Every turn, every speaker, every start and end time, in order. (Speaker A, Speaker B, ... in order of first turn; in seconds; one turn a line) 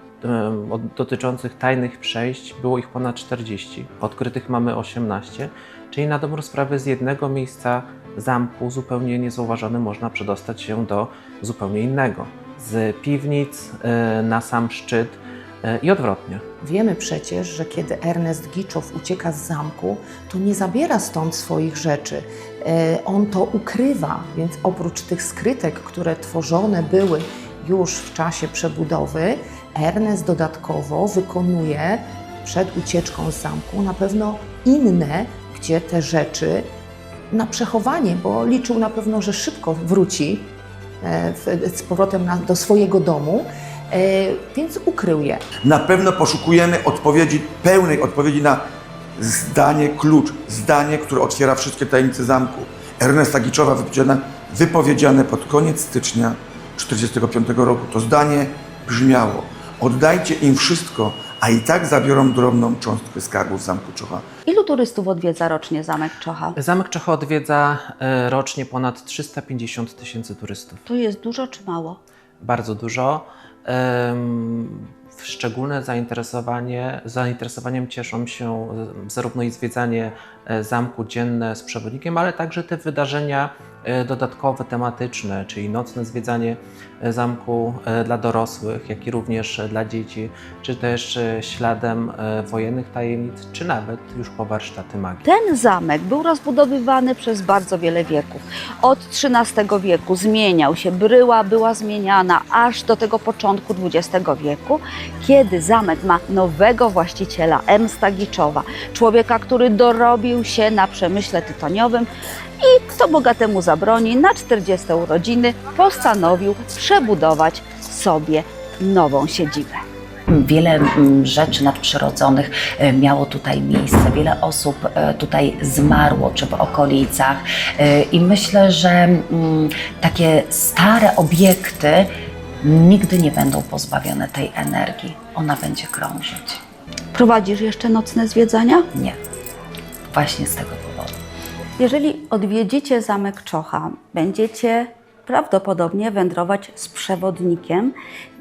Speaker A: 0.2-16.4
Speaker B: 16.6-36.7
Speaker B: 37.3-45.4
Speaker C: 45.6-48.6
Speaker C: 49.2-64.2
Speaker D: 64.5-66.5
Speaker A: 66.5-70.8
Speaker D: 70.8-72.0
Speaker A: 72.4-95.2
Speaker D: 95.2-112.1
Speaker D: 112.6-119.8
Speaker E: 120.3-136.6
Speaker D: 137.1-138.9
Speaker E: 140.1-141.1
Speaker D: 141.8-147.9